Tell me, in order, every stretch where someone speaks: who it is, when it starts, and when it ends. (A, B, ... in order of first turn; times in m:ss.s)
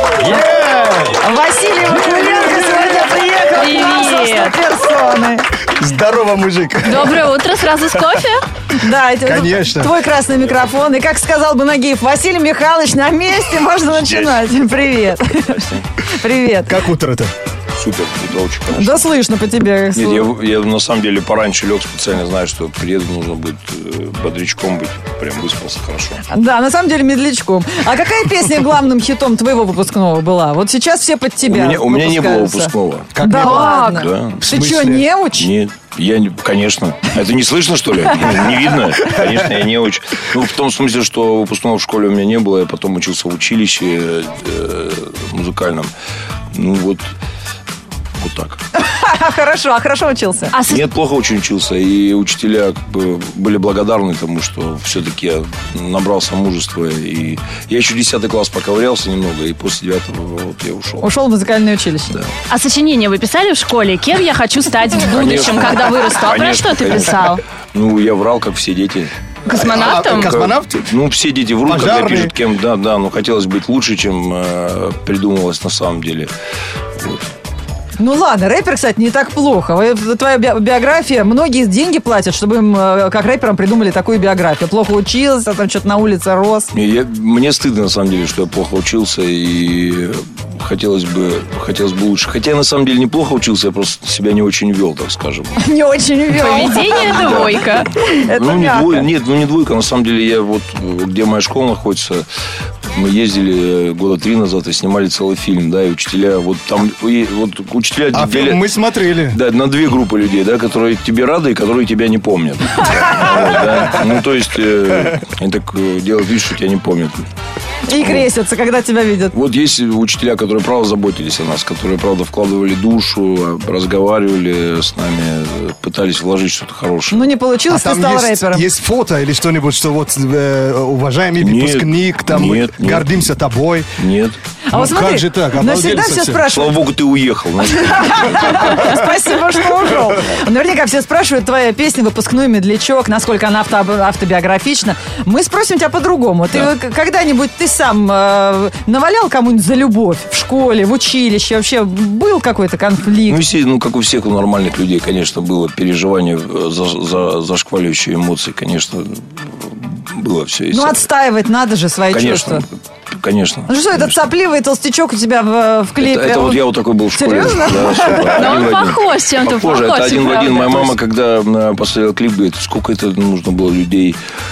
0:00.1-0:01.3 A
0:01.2-0:05.5 B
0:01.8-0:03.4 A
0:03.5-0:04.5 C
0:05.7-0:07.3 A
0:06.8-0:08.4 C
0:08.7-0:16.8 B
0:09.2-0:09.9 A
0:13.9-0:14.4 D
0:15.5-0:15.8 D
0:16.6-0:17.3 A
0:17.7-0:19.1 D
0:18.7-0:20.3 B
0:19.9-0:26.2 D
0:26.3-0:35.5 B
0:31.4-0:33.2 D
0:33.1-0:33.9 A
0:33.3-0:34.1 C
0:33.9-0:34.8 D
0:34.4-0:35.1 A
0:35.3-0:45.9 D
0:46.5-0:47.1 D
0:48.2-0:48.6 D
0:48.8-0:50.5 B
0:50.5-0:50.8 C
0:50.6-1:01.0 D
1:01.0-1:02.2 B
1:02.5-1:07.4 C
1:05.0-1:09.1 D
1:09.4-1:10.4 C
1:09.5-1:10.9 A
1:09.9-1:16.3 D
1:11.6-1:12.3 A
1:17.0-1:17.3 D
1:18.0-1:26.7 B
1:26.7-1:35.6 D
1:35.6-1:39.1 B
1:36.3-1:37.9 C
1:36.9-1:42.2 D
1:42.8-1:48.6 D
1:48.1-1:49.4 A
1:49.3-1:57.2 D
1:57.9-1:59.3 B
1:57.9-1:58.3 D
1:59.3-2:07.2 D
2:07.1-2:08.7 B
2:07.7-2:14.0 A
2:11.4-2:13.1 D
2:14.0-2:14.4 D
2:14.7-2:16.8 B
2:14.7-2:16.5 A
2:16.5-2:19.0 D
2:17.7-2:33.4 B
2:33.2-2:41.0 D
2:40.7-2:42.6 B
2:42.1-2:44.1 D
2:43.7-2:48.8 B
2:46.0-2:54.2 D
2:48.3-2:51.0 C